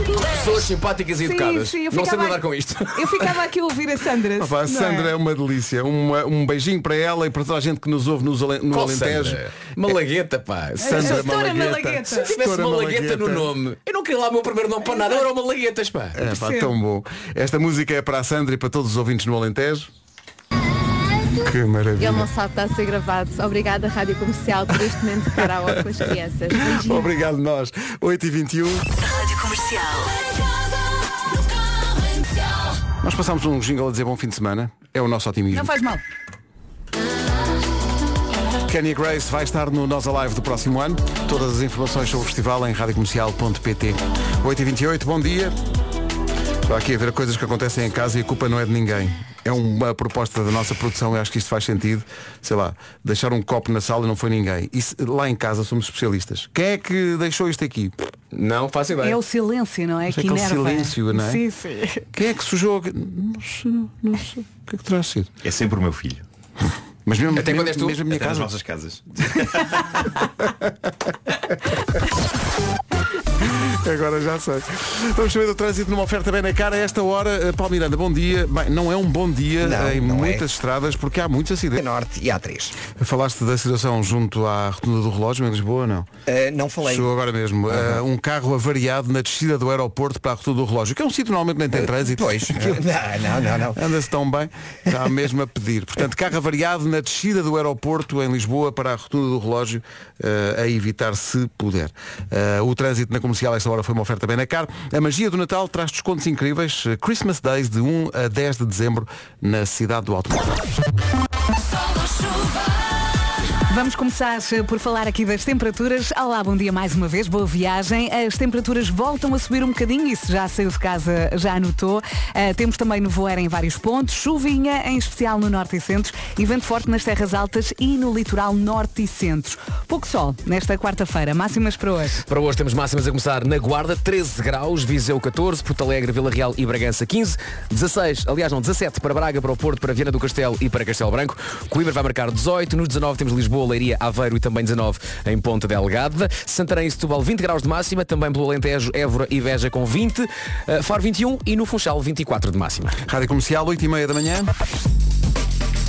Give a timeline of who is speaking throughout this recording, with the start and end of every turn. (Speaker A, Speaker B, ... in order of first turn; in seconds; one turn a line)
Speaker A: 0.2-3.4
Speaker B: 1.2-5.1
Speaker C: 4.4-9.4
Speaker A: 8.7-11.3
Speaker B: 10.8-12.3
Speaker C: 10.8-13.5
Speaker A: 12.2-16.2
Speaker C: 16.1-19.9
Speaker B: 16.3-16.7
Speaker C: 21.4-22.3
Speaker D: 22.0-27.1
Speaker C: 26.6-29.0
Speaker C: 33.0-35.7
Speaker B: 35.5-36.0
Speaker C: 38.6-45.6
Speaker C: 46.6-58.0
Speaker A: 58.3-59.2
Speaker B: 59.0-62.0
Speaker C: 60.1-61.4
Speaker C: 62.1-65.3
Speaker E: 65.4-66.2
Speaker C: 67.1-68.5
Speaker A: 67.3-68.0
Speaker E: 68.1-69.9
Speaker C: 70.4-70.9
Speaker C: 73.4-81.8
Speaker F: 79.6-80.5
Speaker F: 81.8-82.8
Speaker C: 82.9-86.1
Speaker F: 86.3-87.1
Speaker C: 86.8-92.8
Speaker F: 87.7-88.0
Speaker F: 91.8-93.8
Speaker C: 93.7-110.7
Speaker B: 113.7-132.3
Speaker A: 132.3-153.0
Speaker C: 153.1-154.5